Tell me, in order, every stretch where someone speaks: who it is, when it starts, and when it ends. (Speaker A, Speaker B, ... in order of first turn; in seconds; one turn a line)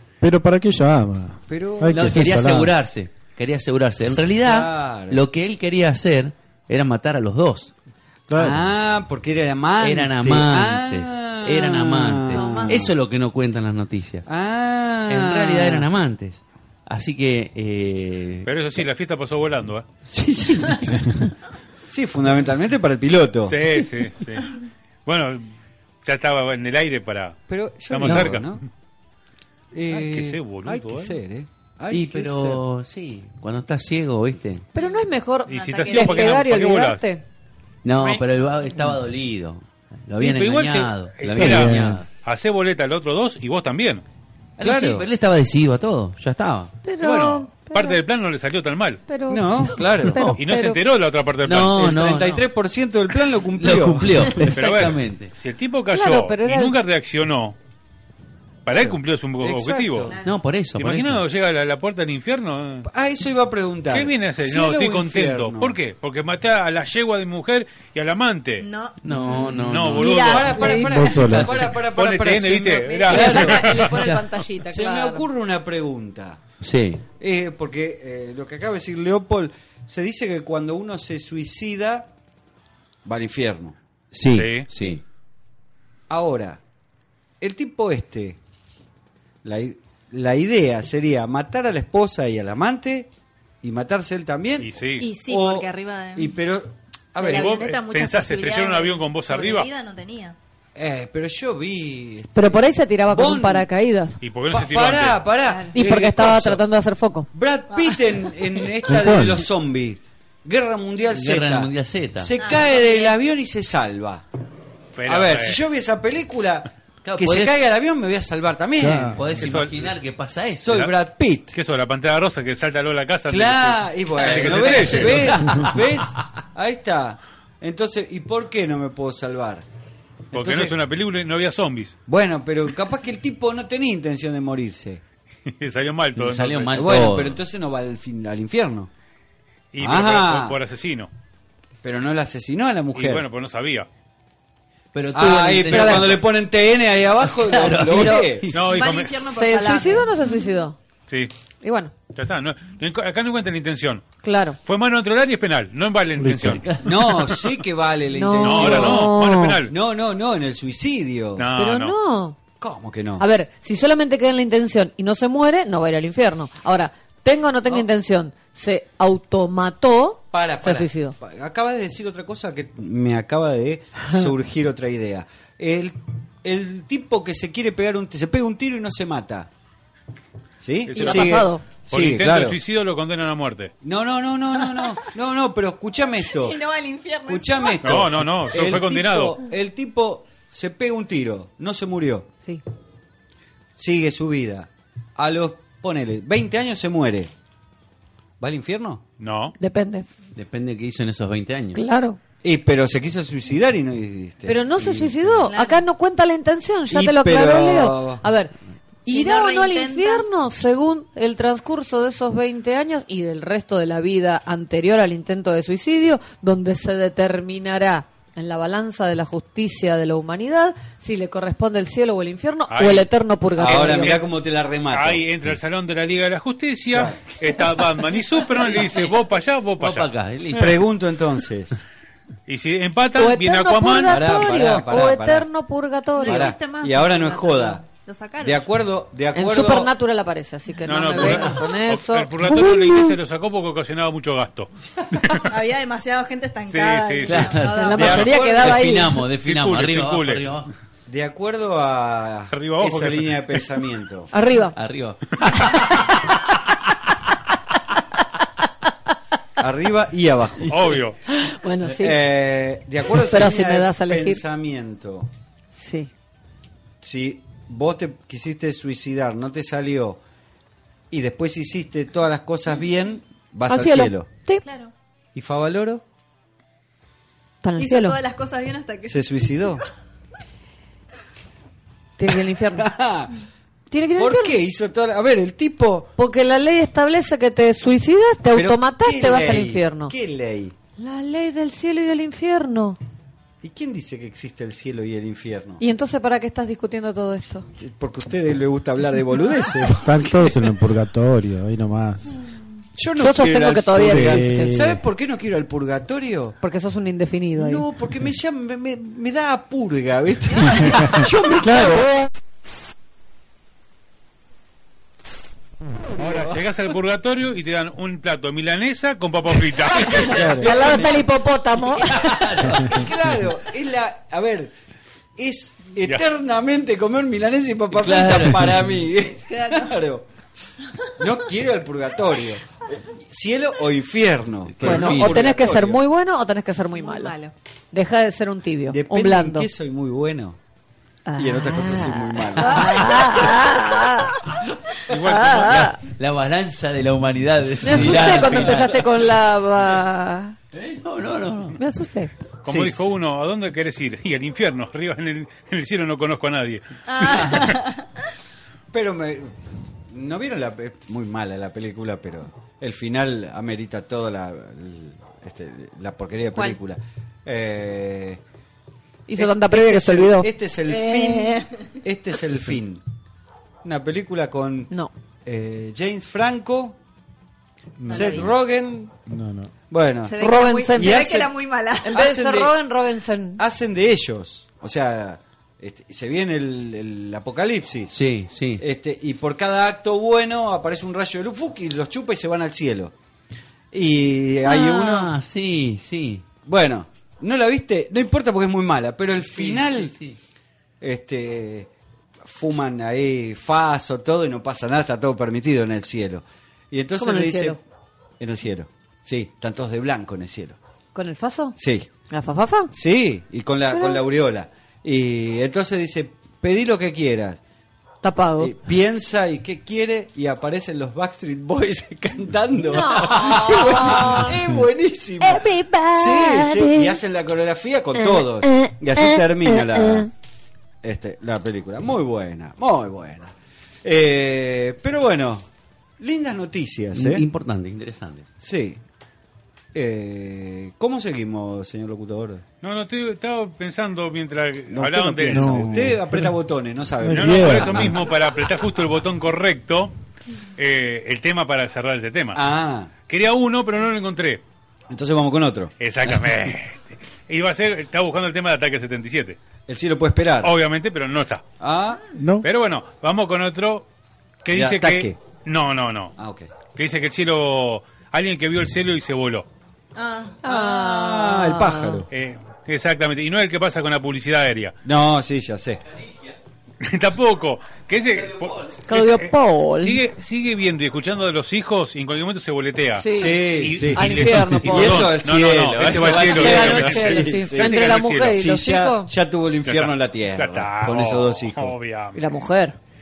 Speaker A: 0.2-2.8
Speaker B: 1.5-2.3
Speaker C: 1.9-7.7
Speaker B: 4.3-5.2
Speaker A: 8.3-8.7
Speaker B: 8.4-12.9
Speaker C: 9.8-14.3
Speaker D: 12.3-12.9
Speaker B: 14.3-15.9
Speaker C: 15.1-18.5
Speaker E: 18.4-19.9
Speaker C: 20.1-21.3
Speaker B: 21.9-23.6
Speaker E: 23.5-25.5
Speaker E: 26.1-28.6
Speaker B: 27.5-28.6
Speaker B: 29.7-32.6
Speaker E: 29.9-31.2
Speaker C: 31.9-34.7
Speaker F: 34.8-37.2
Speaker D: 34.8-36.4
Speaker E: 35.5-37.0
Speaker C: 37.8-42.1
Speaker E: 40.2-44.0
Speaker A: 41.3-42.0
Speaker C: 44.6-46.7
Speaker B: 44.6-45.1
Speaker F: 46.8-48.0
Speaker E: 47.0-49.0
Speaker F: 49.1-50.8
Speaker B: 49.3-50.2
Speaker E: 50.4-52.0
Speaker C: 51.4-52.5
Speaker B: 51.7-54.5
Speaker C: 53.6-55.3
Speaker E: 54.5-57.6
Speaker F: 55.9-56.8
Speaker E: 58.7-60.1
Speaker B: 58.7-60.2
Speaker D: 60.1-60.4
Speaker C: 60.2-61.2
Speaker E: 60.8-62.9
Speaker B: 62.9-65.8
Speaker E: 63.9-68.7
Speaker D: 68.6-69.6
Speaker C: 69.0-71.6
Speaker E: 69.5-70.7
Speaker B: 70.0-73.8
Speaker F: 70.6-70.9
Speaker A: 70.8-71.6
Speaker E: 71.8-74.0
Speaker F: 73.1-75.2
Speaker C: 73.1-74.3
Speaker B: 74.7-76.4
Speaker C: 76.6-77.0
Speaker B: 77.2-82.1
Speaker B: 83.0-83.8
Speaker C: 84.1-85.0
Speaker E: 84.3-84.7
Speaker B: 86.1-86.6
Speaker B: 87.4-88.4
Speaker B: 89.4-93.1
Speaker B: 93.6-97.6
Speaker E: 94.6-95.1
Speaker D: 95.0-96.4
Speaker D: 97.2-100.4
Speaker E: 97.2-99.7
Speaker B: 100.8-103.7
Speaker F: 102.3-104.2
Speaker E: 104.2-105.3
Speaker B: 104.5-106.6
Speaker D: 105.5-105.7
Speaker F: 105.7-107.3
Speaker B: 107.3-114.2
Speaker D: 107.7-108.0
Speaker A: 108.8-109.5
Speaker C: 111.1-112.4
Speaker D: 112.4-113.2
Speaker E: 115.0-115.6
Speaker B: 115.1-119.4
Speaker C: 117.0-117.6
Speaker A: 118.8-119.2
Speaker C: 119.1-120.7
Speaker E: 119.3-119.9
Speaker B: 120.4-121.6
Speaker E: 120.7-120.9
Speaker E: 121.5-125.5
Speaker B: 123.3-129.7
Speaker C: 124.2-125.8
Speaker B: 130.3-130.8
Speaker E: 130.3-131.9
Speaker B: 132.1-135.0
Speaker E: 135.5-137.1
Speaker C: 136.2-137.4
Speaker B: 136.7-138.9
Speaker E: 139.7-141.1
Speaker B: 139.8-140.6
Speaker B: 141.8-143.2
Speaker E: 142.9-143.9
Speaker C: 144.9-146.3
Speaker B: 145.1-148.6
Speaker F: 145.7-146.0
Speaker C: 147.2-148.7
Speaker F: 147.9-148.2
Speaker E: 148.5-149.2
Speaker D: 148.7-150.5
Speaker F: 149.3-150.8
Speaker F: 151.6-151.9
Speaker E: 152.1-154.0
Speaker F: 154.2-154.6
Speaker E: 154.6-156.7
Speaker A: 156.2-156.7
Speaker C: 156.6-157.1
Speaker B: 156.8-161.5
Speaker F: 158.2-159.6
Speaker E: 158.4-159.7
Speaker E: 161.4-162.0
Speaker F: 161.6-162.4
Speaker B: 162.6-163.3
Speaker F: 163.2-171.2
Speaker B: 170.3-179.5
Speaker B: 180.6-182.6
Speaker E: 180.9-183.7
Speaker F: 181.0-181.6
Speaker B: 183.8-186.6
Speaker D: 186.4-187.8
Speaker B: 187.2-192.3
Speaker E: 187.8-189.4
Speaker B: 193.8-197.3
Speaker B: 198.4-199.0
Speaker E: 199.2-199.6
Speaker F: 199.6-200.1
Speaker C: 200.3-201.8
Speaker F: 201.7-202.2
Speaker B: 202.4-205.4
Speaker F: 204.5-208.5
Speaker D: 205.4-205.8
Speaker B: 206.9-208.2
Speaker D: 209.1-210.3
Speaker F: 209.1-224.2
Speaker E: 222.7-224.2
Speaker B: 223.6-225.2
Speaker E: 224.9-230.1
Speaker C: 229.8-230.8
Speaker B: 230.5-231.8
Speaker E: 232.5-234.2
Speaker F: 233.2-236.5
Speaker B: 234.1-235.5
Speaker D: 236.2-238.7
Speaker B: 236.2-237.8
Speaker B: 238.4-239.9
Speaker F: 239.3-243.2
Speaker E: 240.8-244.7
Speaker C: 241.2-241.6
Speaker D: 245.5-248.3
Speaker E: 246.7-247.6
Speaker C: 247.3-250.7
Speaker F: 247.7-249.2
Speaker B: 247.9-248.9
Speaker E: 249.3-250.6
Speaker B: 251.1-254.3
Speaker E: 252.5-253.6
Speaker F: 254.3-254.8
Speaker C: 254.8-256.1
Speaker B: 259.6-261.0
Speaker E: 260.7-261.2
Speaker F: 261.3-262.2
Speaker B: 261.8-265.3
Speaker F: 263.1-264.4
Speaker F: 265.8-266.1
Speaker B: 267.0-270.2
Speaker B: 271.1-274.3
Speaker F: 273.7-274.6
Speaker D: 274.6-274.9
Speaker B: 275.4-276.0
Speaker F: 277.6-278.2
Speaker D: 277.8-279.8
Speaker B: 279.1-279.8
Speaker F: 282.2-282.9
Speaker B: 282.3-283.3
Speaker F: 283.9-284.6
Speaker B: 284.2-286.1
Speaker F: 286.2-290.1
Speaker B: 288.5-290.8
Speaker F: 291.0-293.0
Speaker B: 293.6-295.8
Speaker F: 295.8-297.7
Speaker B: 297.8-300.4
Speaker A: 299.9-302.4
Speaker B: 303.0-306.6
Speaker F: 303.2-304.7
Speaker A: 304.0-305.0
Speaker F: 306.6-307.8
Speaker B: 307.6-312.1
Speaker A: 310.7-312.1
Speaker E: 316.4-320.5
Speaker B: 320.1-321.1
Speaker A: 320.3-320.8
Speaker F: 320.6-322.2
Speaker C: 322.1-323.0
Speaker B: 322.6-324.7
Speaker B: 325.4-330.3
Speaker C: 327.9-328.8
Speaker D: 329.5-329.9
Speaker B: 331.1-336.0
Speaker C: 334.7-335.4
Speaker F: 334.8-337.4
Speaker D: 337.0-337.5
Speaker F: 337.9-339.7
Speaker B: 338.9-340.6
Speaker F: 341.3-344.4
Speaker B: 341.4-343.6
Speaker C: 342.8-343.2
Speaker E: 345.1-345.9
Speaker F: 345.1-346.0
Speaker C: 346.0-349.1
Speaker F: 347.8-350.6
Speaker E: 348.4-348.7
Speaker C: 350.7-351.8
Speaker F: 351.8-352.3
Speaker E: 352.6-357.7
Speaker B: 352.7-352.9
Speaker D: 357.1-358.0
Speaker C: 357.3-357.7
Speaker B: 358.9-368.4
Speaker F: 369.3-370.5
Speaker B: 369.4-373.0
Speaker D: 370.9-371.8
Speaker B: 373.8-374.9
Speaker B: 375.4-377.0
Speaker A: 378.0-378.5
Speaker B: 378.1-379.1
Speaker D: 378.1-378.5
Speaker A: 379.2-379.7
Speaker B: 379.9-380.4
Speaker D: 380.3-382.1
Speaker F: 380.4-381.4
Speaker B: 380.9-382.8
Speaker F: 382.0-383.6
Speaker B: 383.6-388.2
Speaker C: 388.1-388.8
Speaker B: 388.8-393.1
Speaker B: 393.9-395.3
Speaker C: 394.6-396.5
Speaker B: 396.7-400.1
Speaker C: 399.4-400.4
Speaker B: 401.0-401.9
Speaker B: 402.4-407.8
Speaker F: 407.2-407.8
Speaker B: 408.4-410.8
Speaker F: 411.1-411.8
Speaker B: 411.8-412.1
Speaker F: 412.3-412.9
Speaker B: 412.9-417.6
Speaker F: 413.9-414.2
Speaker F: 418.2-418.7
Speaker B: 418.6-430.3
Speaker F: 422.9-424.5
Speaker F: 425.4-427.0
Speaker B: 431.0-435.7
Speaker B: 436.2-437.4
Speaker C: 437.1-438.5
Speaker B: 438.6-439.0
Speaker B: 439.9-442.6
Speaker E: 442.8-446.0
Speaker B: 444.9-448.2
Speaker A: 445.5-446.6
Speaker A: 447.2-448.2
Speaker E: 447.3-450.1
Speaker E: 450.8-452.6
Speaker B: 452.5-453.1
Speaker E: 453.3-454.6
Speaker B: 455.1-456.3
Speaker E: 456.0-459.6
Speaker B: 459.9-460.7
Speaker E: 460.6-461.6
Speaker B: 461.8-462.2
Speaker A: 462.4-462.7
Speaker E: 462.6-464.1
Speaker E: 464.6-466.4
Speaker B: 464.7-465.4
Speaker B: 466.4-466.7
Speaker E: 466.9-469.7
Speaker D: 470.2-470.6
Speaker F: 470.6-472.2
Speaker B: 470.6-472.3
Speaker E: 472.3-475.0
Speaker B: 475.0-476.0
Speaker E: 477.0-488.6
Speaker F: 479.1-480.2
Speaker F: 483.2-485.3
Speaker B: 483.3-491.9
Speaker F: 486.2-489.3
Speaker E: 489.9-492.4
Speaker F: 492.4-493.0